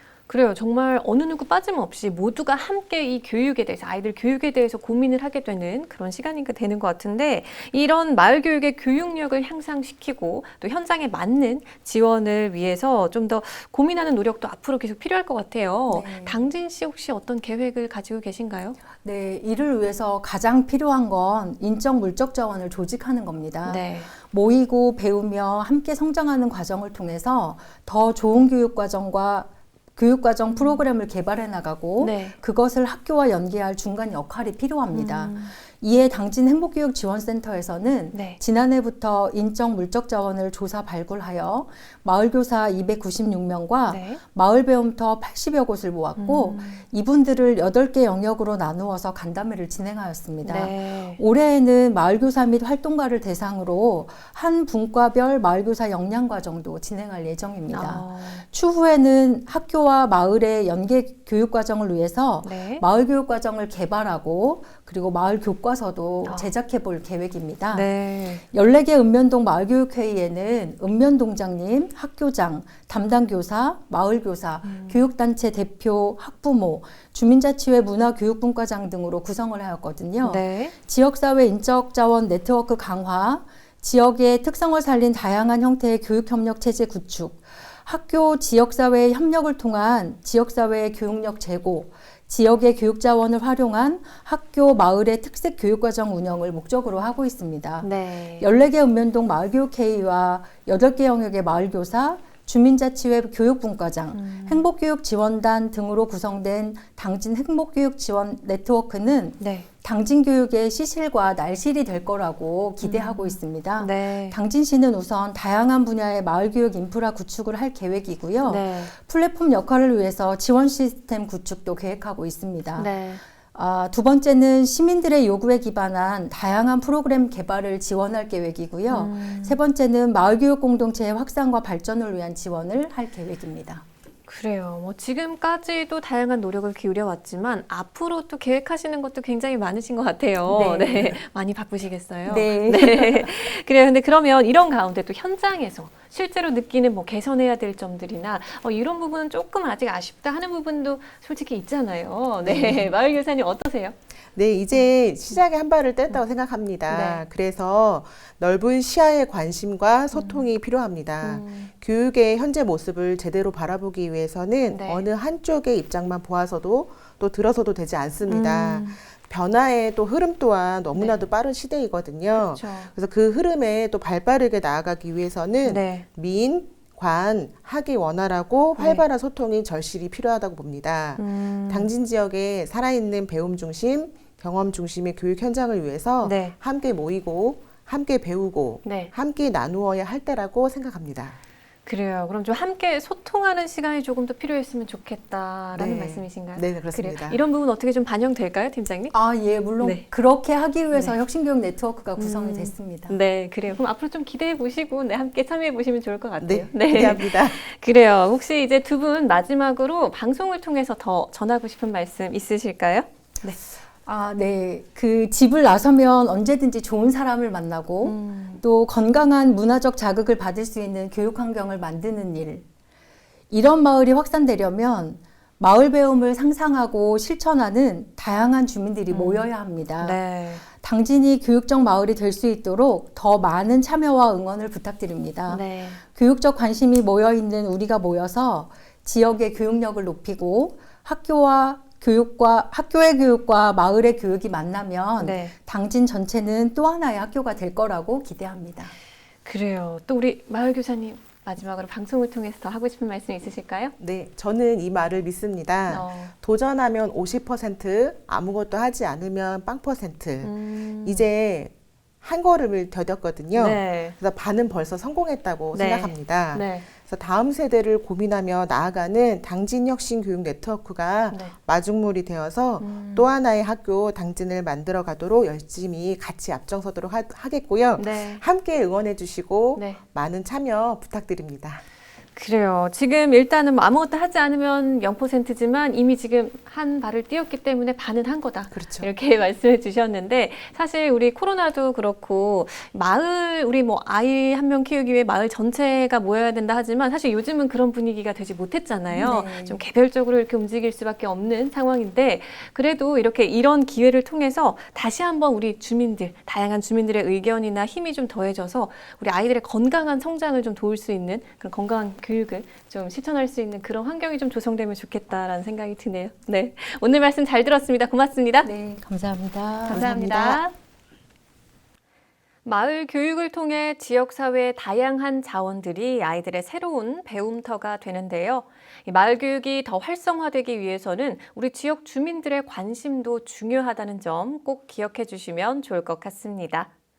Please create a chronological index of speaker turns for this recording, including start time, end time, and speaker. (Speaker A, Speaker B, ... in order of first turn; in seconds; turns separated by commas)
Speaker A: 0.3-18.8, Speaker B: 15.9-16.4, Speaker B: 19.0-67.9, Speaker A: 23.6-24.1, Speaker A: 30.5-30.9, Speaker A: 32.0-32.4, Speaker A: 34.9-35.5, Speaker A: 38.1-38.4, Speaker A: 43.9-44.2, Speaker A: 46.2-46.8, Speaker A: 50.4-51.2, Speaker A: 57.7-58.5, Speaker A: 62.4-62.8, Speaker A: 66.2-66.5, Speaker A: 67.7-68.4, Speaker B: 68.5-122.9, Speaker A: 74.6-75.0, Speaker A: 80.2-80.7, Speaker A: 97.8-98.5, Speaker A: 104.1-104.7, Speaker A: 109.4-109.7, Speaker A: 112.8-114.4, Speaker A: 118.4-118.9, Speaker A: 122.8-123.2, Speaker B: 123.5-133.8, Speaker A: 128.9-129.6, Speaker A: 134.3-153.9, Speaker B: 140.4-141.2, Speaker B: 142.3-143.5, Speaker B: 152.4-152.9, Speaker C: 154.3-191.4, Speaker A: 154.7-155.4, Speaker A: 156.9-157.2, Speaker A: 160.1-160.5, Speaker A: 161.2-161.7, Speaker A: 164.7-165.1, Speaker A: 168.3-169.0, Speaker A: 170.9-171.3, Speaker A: 172.3-172.9, Speaker A: 175.7-176.1, Speaker A: 178.8-179.1, Speaker A: 181.2-181.9, Speaker A: 186.2-186.6, Speaker A: 188.8-189.1, Speaker A: 191.9-199.2, Speaker C: 195.7-197.4, Speaker B: 199.1-203.2, Speaker A: 199.8-200.1, Speaker A: 200.9-201.2, Speaker A: 202.2-213.6, Speaker C: 206.4-207.6, Speaker B: 214.1-222.7, Speaker A: 218.0-218.6, Speaker B: 223.5-230.2, Speaker A: 229.1-230.6, Speaker B: 230.7-248.9, Speaker A: 235.5-236.0, Speaker A: 245.2-245.6, Speaker A: 249.4-253.9, Speaker C: 254.0-281.8, Speaker A: 255.9-256.3, Speaker A: 260.4-261.3, Speaker A: 263.5-264.2, Speaker A: 265.7-266.9, Speaker A: 272.8-273.3, Speaker A: 278.0-278.4, Speaker A: 279.8-280.0, Speaker A: 282.4-318.7, Speaker C: 288.7-289.1, Speaker B: 299.1-299.8, Speaker B: 318.6-320.1, Speaker A: 319.9-320.7, Speaker C: 319.9-320.6, Speaker A: 322.6-336.9